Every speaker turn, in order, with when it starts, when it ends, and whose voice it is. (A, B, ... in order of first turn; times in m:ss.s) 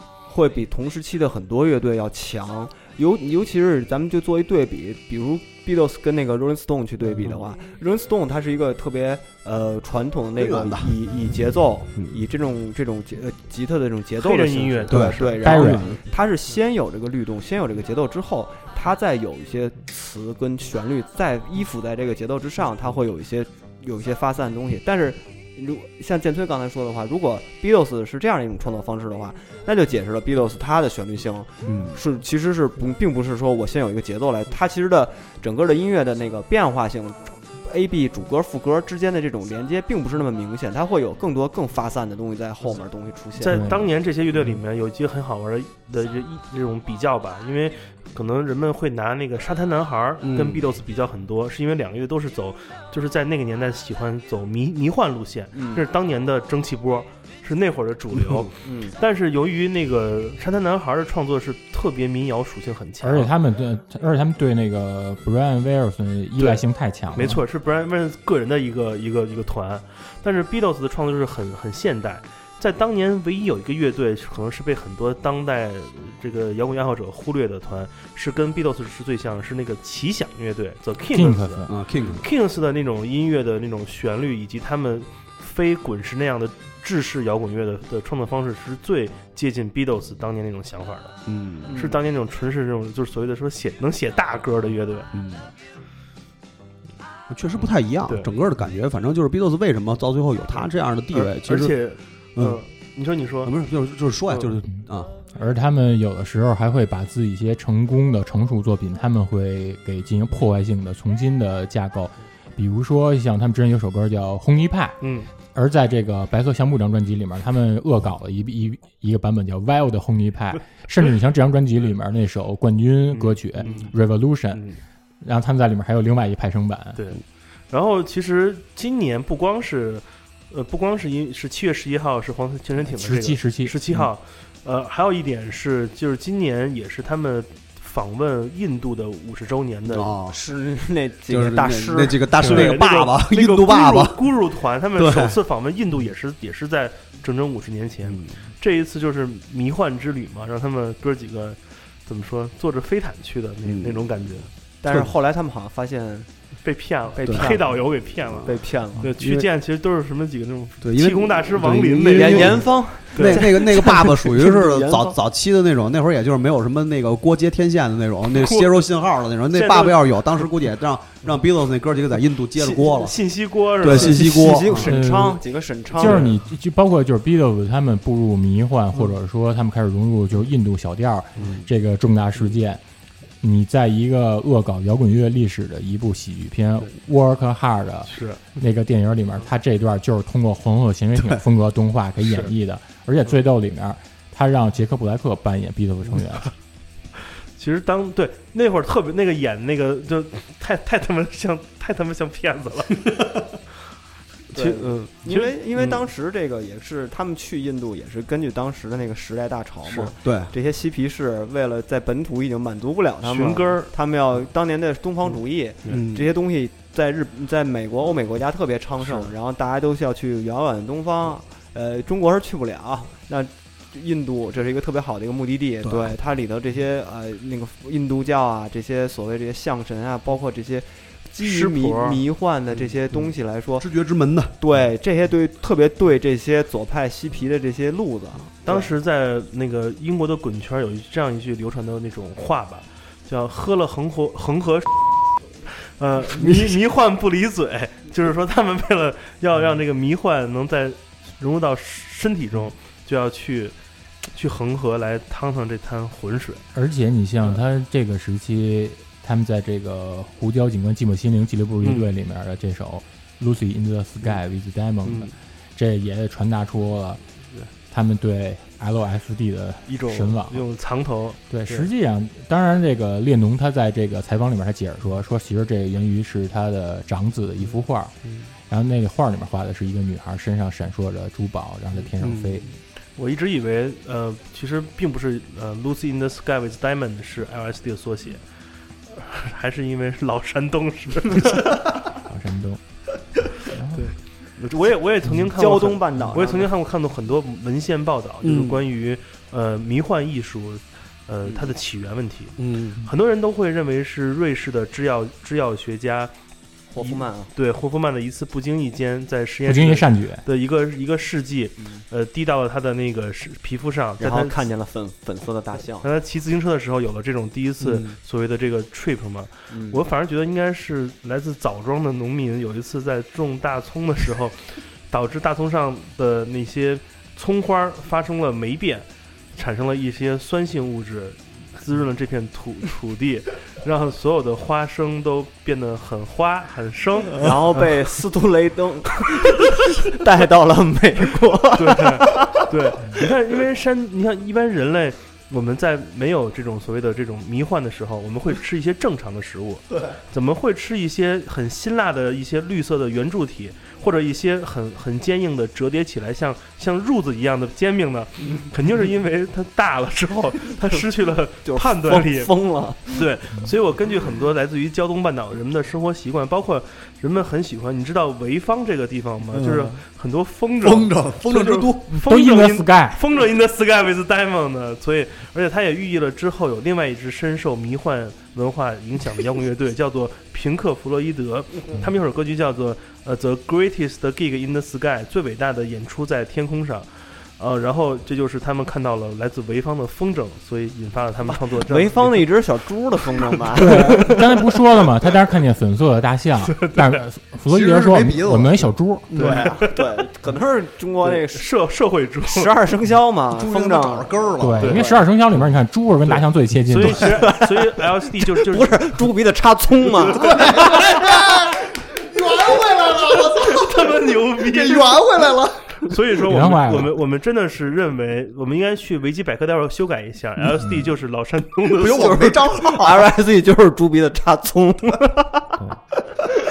0:00.3-0:43.6 A
0:10.4-0:10.9 B
0:14.2-0:15.7 C
0:14.9-0:15.9 B
0:15.4-0:15.9 D
0:31.6-0:32.0 B
0:43.4-1:03.3 C
0:43.5-0:43.9 D
0:50.2-0:50.7 B
0:55.5-0:55.8 A
0:58.1-0:58.5 B
0:58.6-0:59.0 A
1:03.0-1:07.4 D
1:07.1-1:31.2 C
1:21.1-1:21.7 D
1:21.7-1:22.2 B
1:31.3-1:31.7 B
1:31.7-1:32.0 A
1:31.7-1:35.1 C
1:35.1-1:35.5 B
1:37.3-1:41.8 B
1:41.1-1:43.5 C
1:42.4-1:42.6 B
1:43.4-1:45.1 B
1:44.3-1:44.5 C
1:45.3-1:55.0 D
1:55.0-1:55.3 C
1:55.5-2:04.6 D
2:03.1-2:03.9 C
2:04.5-2:04.8 C
2:05.2-2:07.0 D
2:07.0-2:20.1 C
2:12.8-2:13.8 D
2:19.9-2:20.4 B
2:20.3-2:22.2 A
2:21.3-2:24.2 B
2:22.4-2:34.5 C
2:24.9-2:25.4 B
2:28.0-2:28.4 B
2:33.6-2:34.1 B
2:34.8-2:36.3 A
2:36.6-2:43.5 C
2:37.1-2:37.8 A
2:37.3-2:37.5 B
2:38.4-2:39.1 A
2:39.0-2:39.4 B
2:40.8-2:53.2 B
2:42.1-2:45.2 A
2:48.3-2:48.8 C
2:49.5-2:50.5 C
2:52.5-2:54.5 C
2:53.8-2:54.9 B
2:53.8-2:56.2 A
2:54.8-3:02.8 D
2:56.0-2:56.3 C
3:01.4-3:01.6 B
3:03.4-3:16.5 D
3:08.1-3:08.4 C
3:12.2-3:12.5 C
3:17.6-3:23.0 C
3:24.5-3:26.0 C
3:24.5-3:53.9 A
3:29.8-3:30.1 C
3:30.2-3:30.5 B
3:33.2-3:33.9 C
3:35.9-3:36.3 B
3:45.8-3:46.1 B
3:51.4-3:52.2 C
3:53.1-3:54.5 B
3:54.6-3:58.9 A
3:58.6-4:05.1 C
4:05.7-4:13.7 C
4:06.4-4:06.6 B
4:14.3-4:16.6 C
4:16.7-4:27.2 D
4:21.8-4:22.1 C
4:25.0-4:25.3 C
4:27.9-4:30.6 D
4:29.9-4:31.9 C
4:31.5-4:38.1 D
4:38.7-4:42.6 D
4:42.2-4:42.6 B
4:43.2-4:48.4 C
4:49.1-4:51.8 C
4:52.2-4:52.8 D
4:53.6-4:54.1 D
4:53.9-5:06.3 C
4:55.5-4:56.7 A
4:58.4-4:58.8 B
5:02.6-5:03.0 B
5:06.9-5:07.5 A
5:07.0-5:14.6 C
5:09.6-5:10.4 D
5:14.2-5:16.1 A
5:16.0-5:37.8 C
5:19.7-5:20.0 A
5:37.4-5:42.6 A
5:41.7-6:02.5 C
6:01.6-6:03.2 A
6:03.1-6:32.5 C
6:09.5-6:10.0 B
6:10.8-6:12.1 B
6:12.1-6:13.2 D
6:31.7-6:34.4 A
6:33.8-6:34.4 C
6:33.8-6:39.3 D
6:36.6-6:37.2 C
6:37.7-6:39.7 B
6:39.4-6:40.0 C
6:39.4-6:41.6 A
6:41.2-6:42.7 C
6:42.4-6:44.3 A
6:43.5-6:45.0 B
6:44.6-6:47.4 D
6:44.8-6:45.1 C
6:46.2-6:49.1 C
6:47.4-6:51.0 A
6:50.3-6:51.2 C
6:50.4-6:56.1 B
6:53.4-6:55.3 C
6:56.0-7:02.4 C
6:56.5-6:57.1 D
7:00.8-7:01.1 D
7:01.9-7:03.3 B
7:02.1-7:05.7 A